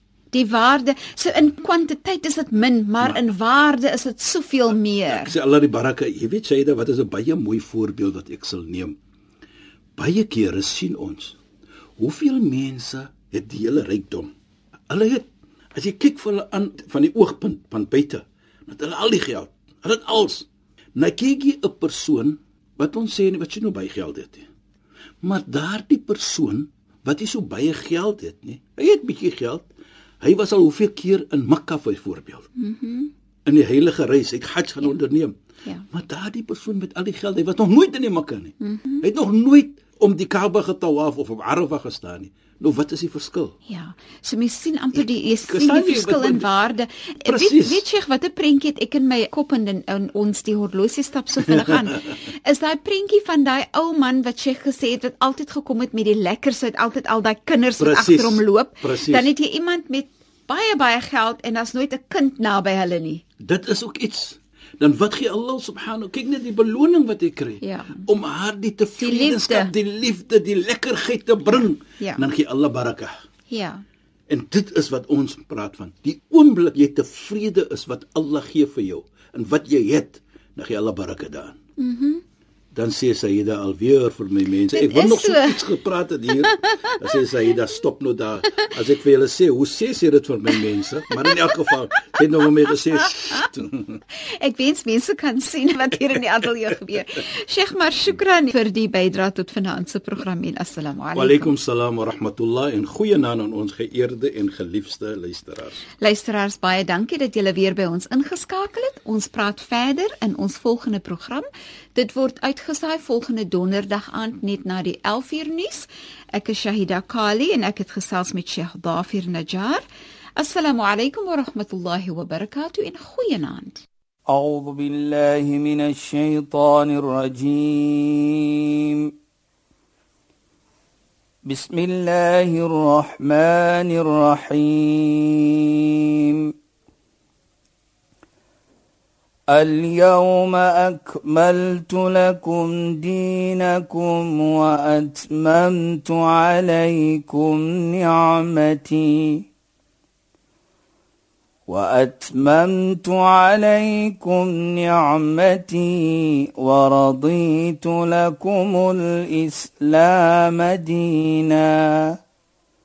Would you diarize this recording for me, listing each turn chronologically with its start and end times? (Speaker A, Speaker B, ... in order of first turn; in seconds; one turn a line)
Speaker A: 0.3-5.3
Speaker B: 5.1-9.0
Speaker B: 10.0-11.4
Speaker B: 12.0-14.3
Speaker B: 14.9-24.4
Speaker B: 25.2-29.7
Speaker B: 30.2-32.5
Speaker A: 32.6-33.1
Speaker B: 33.5-35.3
Speaker B: 35.9-43.5
Speaker A: 38.6-39.0
Speaker A: 43.7-63.2
Speaker B: 45.0-46.5
Speaker B: 47.2-47.8
Speaker B: 51.5-51.9
Speaker B: 57.8-59.3
Speaker B: 63.4-73.1
Speaker A: 67.6-68.0
Speaker A: 69.0-69.7
Speaker A: 71.5-72.2
Speaker A: 73.5-73.8
Speaker B: 74.3-81.6
Speaker A: 81.8-82.2
Speaker B: 82.7-94.0
Speaker A: 84.7-85.7
Speaker A: 86.3-86.8
Speaker A: 91.1-91.7
Speaker A: 94.4-101.5
Speaker B: 101.1-105.8
Speaker A: 106.0-119.8
Speaker A: 120.4-123.8
Speaker C: 124.3-129.1
Speaker C: 131.4-136.5
Speaker C: 139.5-149.4
Speaker C: 151.7-162.2